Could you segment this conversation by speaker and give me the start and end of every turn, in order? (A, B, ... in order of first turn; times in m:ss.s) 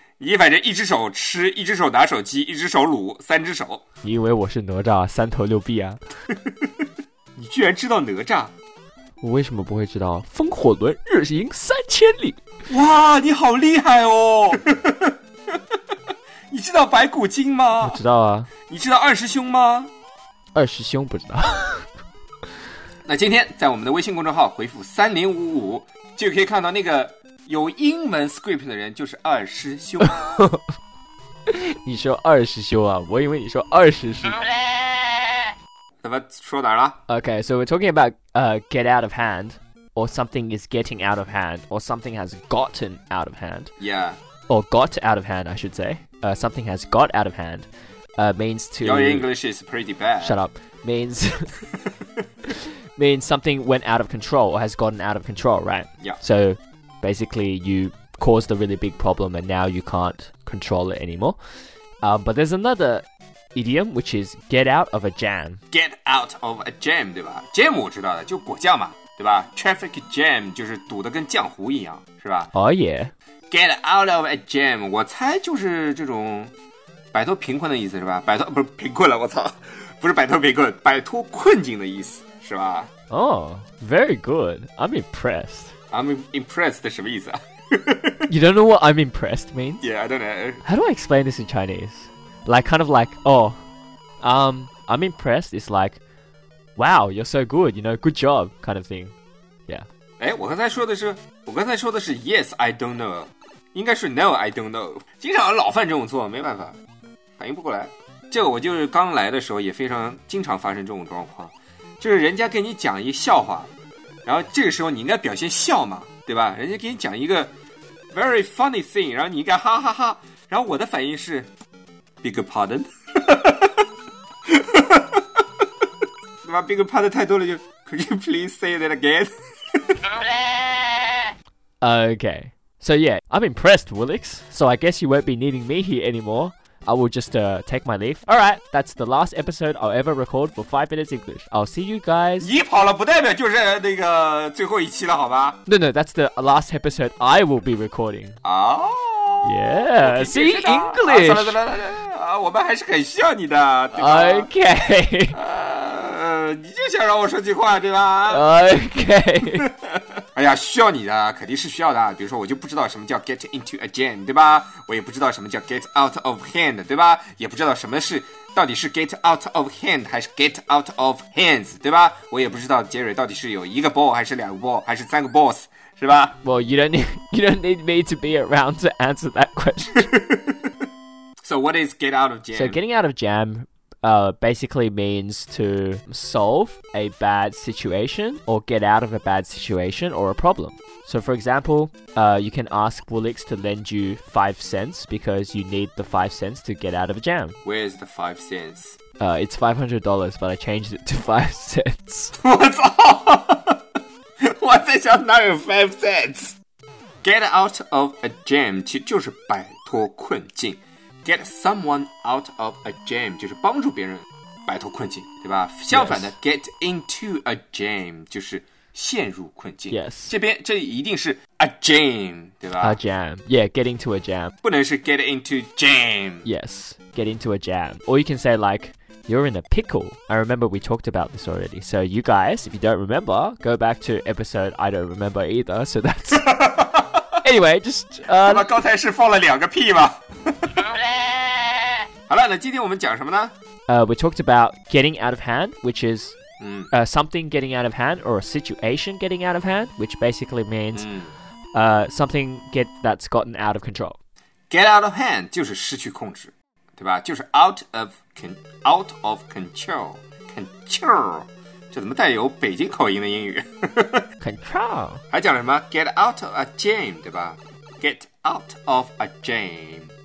0:00.2-0:03.8 A
0:04.0-0:06.0 B
0:07.4-0:08.5 A
0:09.2-0:12.4 B
0:12.7-0:15.2 A
0:16.5-0:18.0 A
0:17.8-0:18.5 B
0:18.7-0:19.9 A
0:20.5-0:21.8 B
0:23.0-0:30.4 A
0:30.0-0:30.7 B
0:31.5-0:34.4 B
0:36.0-0:37.0 A
0:37.1-0:43.7 B
0:43.8-0:44.2 A
0:44.5-0:49.3 B
0:48.8-0:50.4 A
0:50.2-0:51.6 B
0:52.5-1:01.4 B
1:02.0-1:05.6 B
1:05.7-1:12.5 A
1:12.5-1:13.1 B
1:13.5-1:16.5 A
1:17.1-1:22.9 A
1:23.1-1:25.7 B
1:25.9-1:28.2 A
1:28.3-1:29.8 B
1:29.8-1:30.6 A
1:30.6-1:33.6 B
1:34.2-1:36.0 B
1:36.8-1:39.1 B
1:40.2-1:46.8 A
1:47.4-1:53.7 A
1:54.3-1:57.5 A
1:58.1-2:01.5 A
2:02.2-2:03.8 A
2:04.5-2:05.2 A
2:06.4-2:10.0 A
2:11.8-2:22.5 B
2:22.4-2:25.6 A
2:25.7-2:28.4 B
2:28.4-2:34.5 A
2:29.4-2:31.6 B
2:33.9-2:35.4 B
2:35.3-2:38.5 A
2:38.3-2:39.6 B
2:39.5-2:56.4 A
2:56.4-3:00.1 B
3:00.1-3:00.4 A
3:01.4-3:02.8 A
3:02.5-3:17.6 B
3:17.6-3:19.0 A
3:19.2-3:22.3 B
3:22.4-3:23.8 A
3:24.4-3:26.6 A
3:27.2-3:43.0 A
3:35.9-3:36.3 B
3:39.9-3:40.3 B
3:42.8-3:44.5 B
3:44.6-3:46.5 A
3:46.4-3:56.5 B
3:56.3-3:57.4 A
3:57.4-3:58.7 B
3:58.3-4:01.1 A
4:02.3-4:03.5 A
4:03.9-4:06.4 B
4:06.6-4:06.9 A
4:06.9-4:11.1 B
4:10.9-4:11.3 A
4:11.7-4:14.2 B
4:14.7-4:24.2 A
4:24.4-4:25.2 B
4:25.3-4:30.1 A